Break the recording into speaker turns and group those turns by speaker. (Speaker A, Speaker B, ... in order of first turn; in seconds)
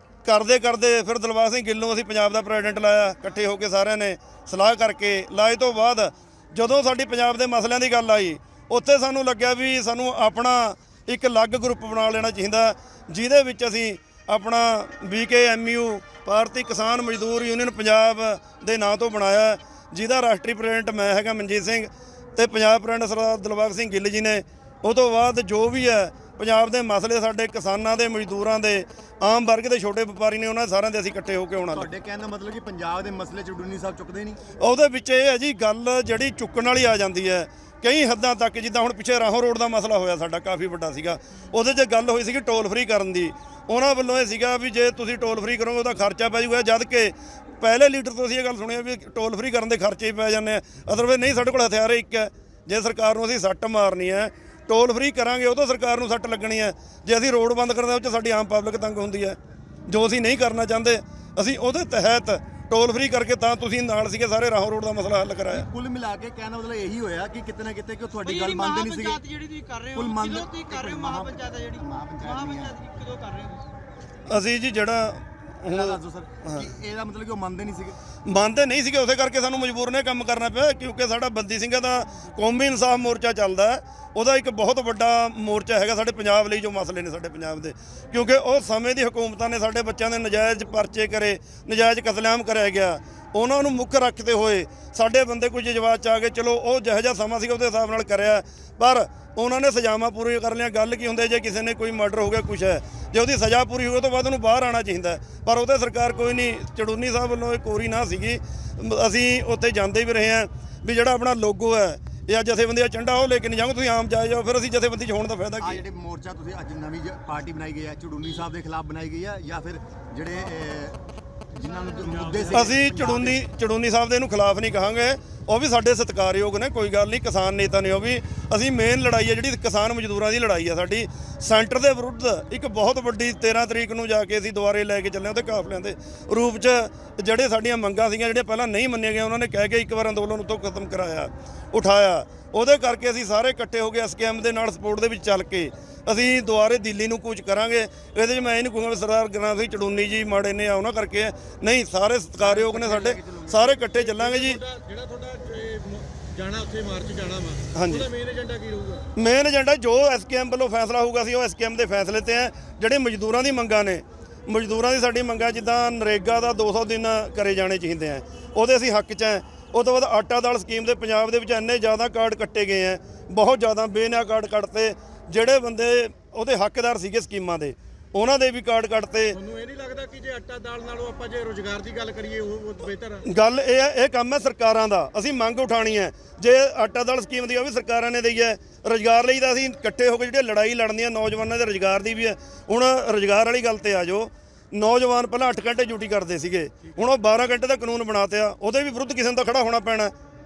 Speaker A: 0.2-31.9, 34.6-59.4, 59.9-65.7, 74.3-75.9, 78.2-115.8, 122.5-154.6, 157.7-158.1, 159.2-179.4, 183.3-200.1
Speaker B: 31.7-34.4, 65.5-69.2, 69.9-72.8, 75.7-78.0, 115.6-121.0, 121.5-123.4
Speaker C: 68.2-73.7
Speaker D: 152.4-159.0, 179.3-183.2